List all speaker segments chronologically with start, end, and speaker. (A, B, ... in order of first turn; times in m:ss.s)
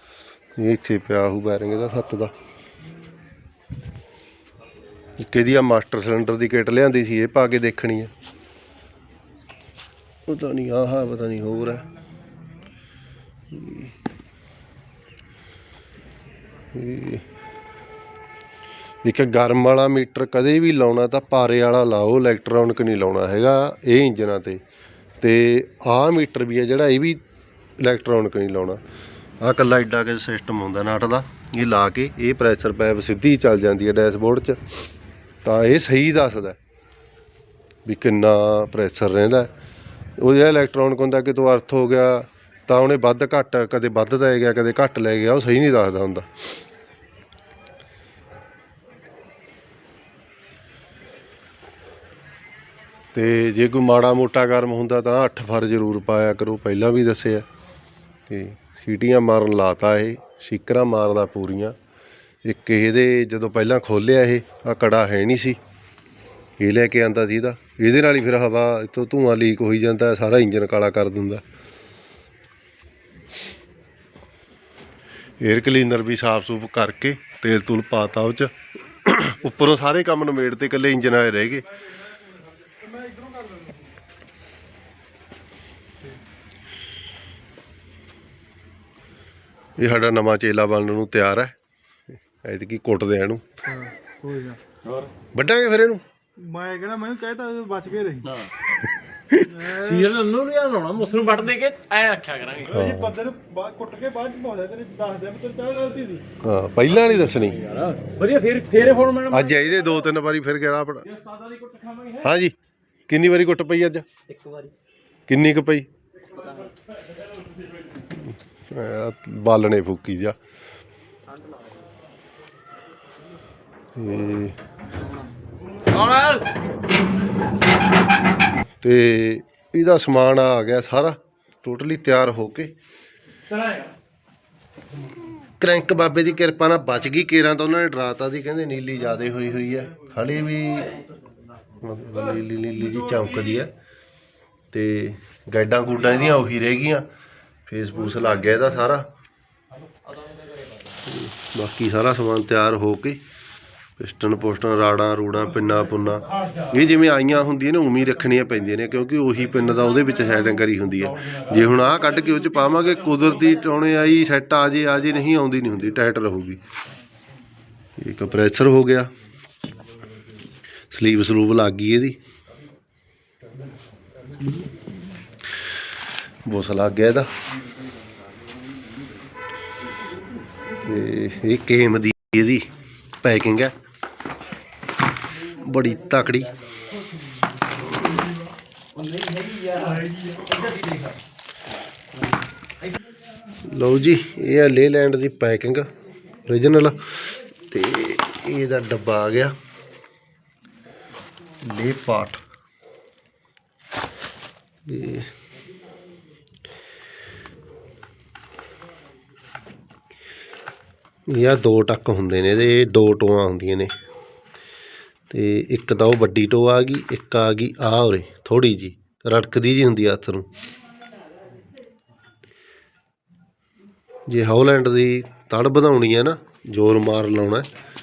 0:00.6-0:02.3 A
0:05.2-0:08.1 A
0:10.3-0:11.9 A
0:13.5-0:13.9 A
0:16.7-0:17.2 A
0:19.0-0:24.6 A
0:25.2-0:27.2 A
0:27.8-0:28.8 A
0:29.4-0:34.6 A
0:35.4-0:36.6 A
0:37.8-0:39.5 A
0:40.2-0:46.3 A
0:53.1-0:57.4 A
0:58.3-1:01.8 A
1:02.4-1:05.6 A
1:06.6-1:11.4 A
1:15.4-1:21.7 A
1:29.8-1:31.5 A
1:32.4-1:33.4 A
1:34.2-1:34.6 B
1:35.3-1:36.0 A
1:36.4-1:38.3 B
1:39.3-1:39.7 A
1:39.5-1:40.3 B
1:40.2-1:42.5 C
1:41.1-1:41.6 B
1:42.6-1:43.2 A
1:43.1-1:46.2 B
1:46.4-1:48.0 A
1:48.2-1:48.7 C
1:48.7-1:51.1 A
1:52.2-1:52.5 A
1:53.1-1:54.0 A
1:54.4-1:54.7 B
1:55.3-1:55.9 A
1:58.2-2:00.4 A
2:03.9-2:04.6 A
2:08.8-2:12.7 A
2:15.6-2:21.0 A
2:21.8-2:23.7 A
2:24.7-2:27.1 A
2:27.6-2:29.1 A
2:31.0-2:33.2 A
2:34.0-2:46.6 A
2:48.0-2:49.1 A
2:50.9-2:52.2 A
2:56.4-2:57.3 A
3:00.8-3:02.7 A
3:03.2-3:03.7 A
3:05.5-3:06.6 A
3:13.6-3:15.9 A
3:16.4-3:19.5 A
3:21.6-3:22.4 A
3:24.9-3:25.3 A
3:31.3-3:33.9 A
3:35.3-3:40.5 A
3:44.3-3:47.7 A